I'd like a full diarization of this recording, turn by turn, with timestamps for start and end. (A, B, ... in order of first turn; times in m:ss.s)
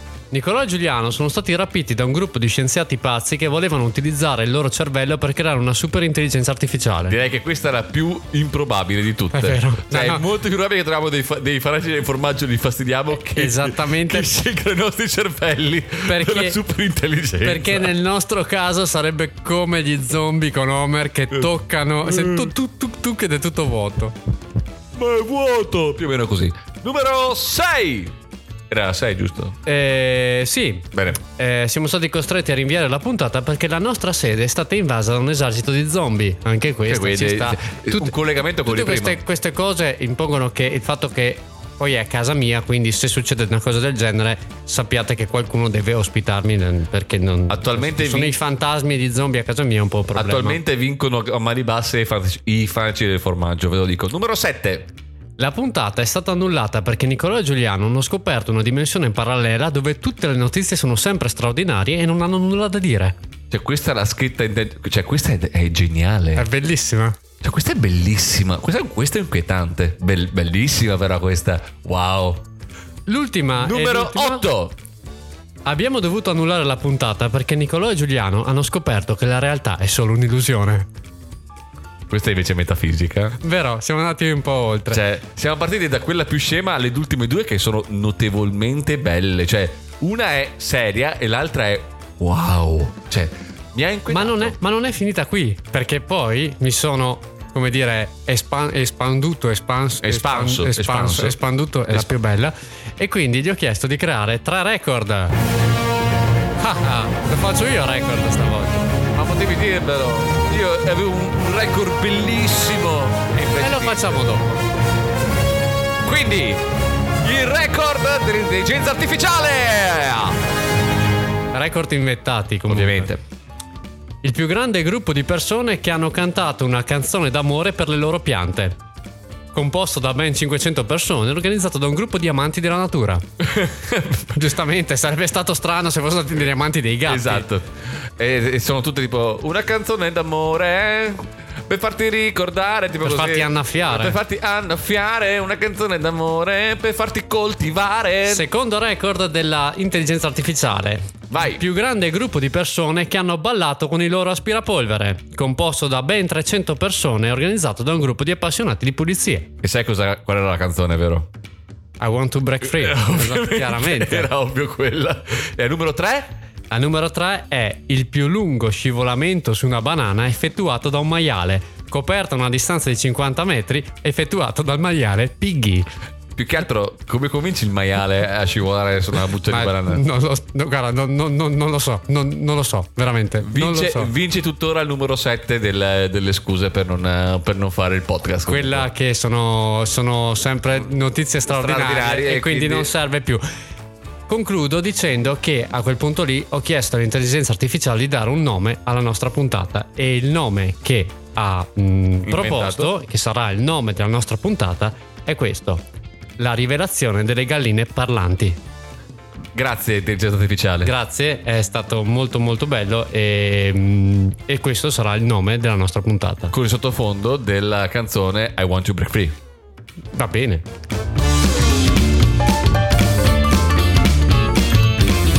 0:00.3-0:07.2 A
0:07.1-0:17.9 B
0:09.3-0:10.2 A
0:13.3-0:14.3 A
0:16.0-0:16.6 A
0:17.4-0:24.2 A
0:22.0-0:22.5 B
0:25.0-0:28.1 B
0:28.7-0:29.6 B
0:29.7-0:50.6 A
0:30.9-0:31.2 B
0:36.9-0:39.2 B
0:47.5-0:48.4 B
0:50.2-0:54.9 B
0:55.4-1:03.2 A
1:03.5-1:06.5 B
1:06.4-1:07.2 A
1:07.4-1:12.4 B
1:13.1-1:14.5 A
1:13.6-1:14.8 B
1:15.7-1:20.9 A
1:22.1-1:23.4 B
1:23.4-1:25.0 A
1:24.9-1:34.6 B
1:34.1-1:45.4 A
1:40.0-1:41.4 B
1:46.6-1:48.9 A
1:49.1-1:54.4 B
1:53.6-1:54.6 A
1:56.0-1:56.6 B
1:57.2-2:00.4 B
2:01.5-2:03.1 A
2:02.7-2:03.2 B
2:04.2-2:08.8 A
2:09.5-2:13.2 A
2:13.4-2:14.4 B
2:14.3-2:17.5 A
2:17.1-2:28.5 B
2:23.0-2:24.2 A
2:28.3-2:39.5 A
2:31.3-2:31.6 B
2:39.6-2:41.3 B
2:42.0-2:44.3 A
2:42.6-2:46.3 B
2:46.7-2:55.9 A
2:56.4-3:00.0 B
2:59.5-3:04.1 A
3:03.4-3:08.9 B
3:08.5-3:13.4 A
3:11.5-3:12.9 B
3:14.3-3:25.8 A
3:22.2-3:22.9 B
3:26.4-3:28.6 A
3:29.5-3:30.9 B
3:30.8-3:36.5 A
3:36.5-3:39.4 B
3:40.2-3:40.6 A